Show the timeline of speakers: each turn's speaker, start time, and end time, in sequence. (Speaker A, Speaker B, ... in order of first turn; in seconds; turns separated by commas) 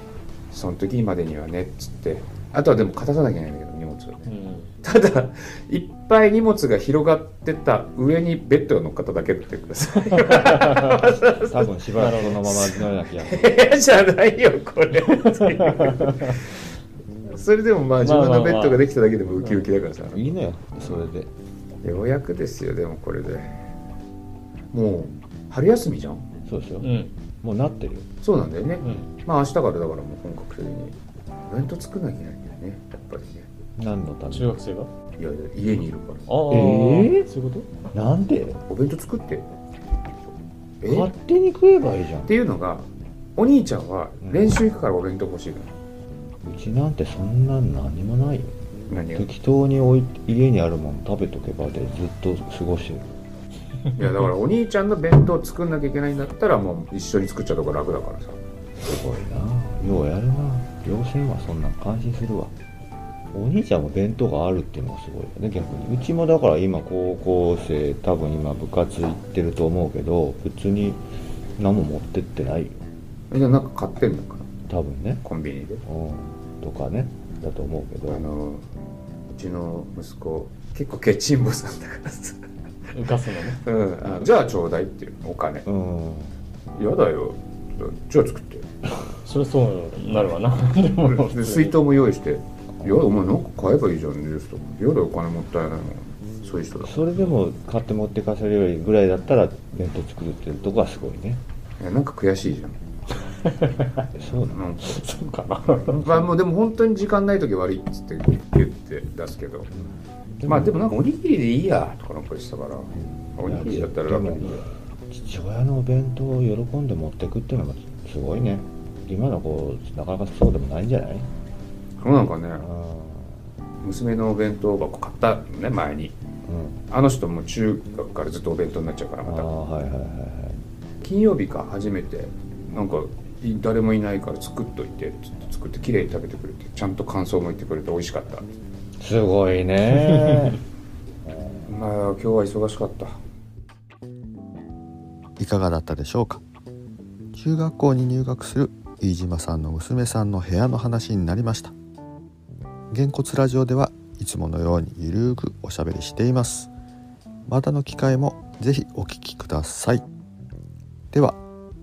Speaker A: 0.5-4.3, Speaker B: 4.3-4.7, Speaker A: 4.8-11.7, Speaker C: 11.3-13.5, Speaker B: 12.0-12.4, Speaker A: 12.4-16.4, Speaker A: 17.3-20.2, Speaker B: 18.0-18.8, Speaker C: 20.1-21.3, Speaker A: 21.8-23.5, Speaker A: 24.7-26.2, Speaker C: 26.5-26.9, Speaker B: 26.8-27.1, Speaker C: 27.4-28.1, Speaker A: 28.2-31.0, Speaker B: 28.8-29.1, Speaker A: 31.5-33.5, Speaker C: 33.8-34.5, Speaker B: 34.3-34.9, Speaker A: 35.2-36.2, Speaker B: 36.3-37.7, Speaker C: 36.5-37.3, Speaker C: 37.9-38.6, Speaker A: 38.7-39.5, Speaker A: 40.8-41.1, Speaker C: 40.9-42.3, Speaker A: 42.3-42.9, Speaker A: 43.4-45.7, Speaker C: 44.2-44.5, Speaker C: 46.4-48.5, Speaker A: 48.9-49.3, Speaker C: 49.1-53.1, Speaker A: 54.0-58.4, Speaker C: 58.8-62.5, Speaker C: 63.3-71.0, Speaker C: 71.6-72.8, Speaker A: 73.3-74.5, Speaker C: 74.7-75.2, Speaker A: 75.2-75.8, Speaker C: 75.8-78.2, Speaker A: 78.1-78.6, Speaker A: 79.3-82.4, Speaker B: 82.9-83.6, Speaker A: 83.6-85.6, Speaker C: 85.7-86.3, Speaker A: 86.8-88.7, Speaker B: 89.2-91.8, Speaker A: 91.0-97.3, Speaker C: 96.8-101.4, Speaker A: 101.8-102.8, Speaker B: 103.5-104.0, Speaker C: 104.2-104.8, Speaker A: 104.5-105.0, Speaker B: 104.8-106.2, Speaker A: 106.0-109.7, Speaker C: 109.7-110.9, Speaker A: 110.5-114.6, Speaker C: 113.0-121.3, Speaker A: 122.0-122.6, Speaker C: 122.5-123.4, Speaker A: 123.8-126.2, Speaker C: 126.5-126.8, Speaker A: 126.9-129.5, Speaker C: 129.2-130.6, Speaker A: 131.0-138.4, Speaker C: 139.0-140.6, Speaker A: 141.7-143.2, Speaker D: 145.4-146.4, Speaker D: 147.3-151.7, Speaker D: 152.9-156.7, Speaker D: 157.5-160.1, Speaker D: 161.1-161.4